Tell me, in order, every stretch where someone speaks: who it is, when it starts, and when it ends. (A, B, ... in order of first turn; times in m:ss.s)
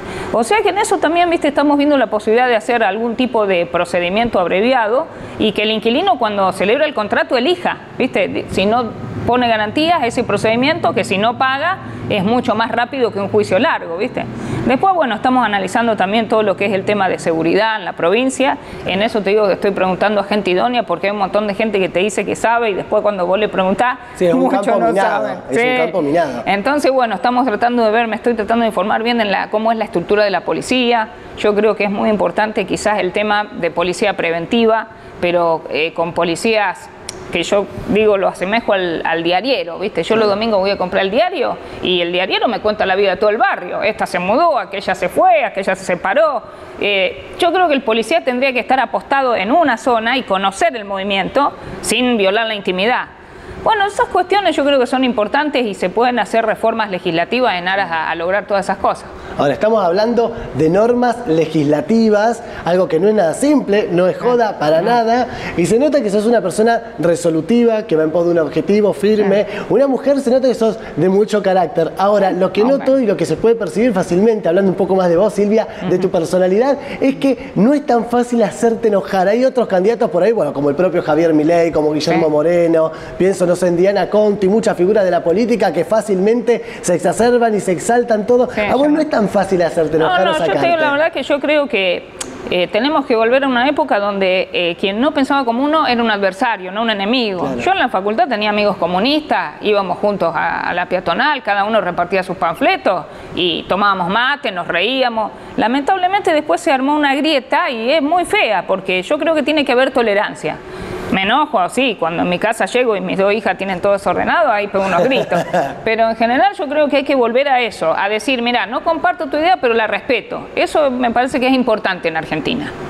0:00.3-0:53.1 A
0:24.2-0:26.5 B
0:53.6-0:59.1 A
0:59.4-1:30.9 B
1:12.6-1:12.9 A
1:28.6-1:29.0 A
1:30.0-1:50.6 A
1:37.4-1:37.7 B
1:51.1-2:02.7 A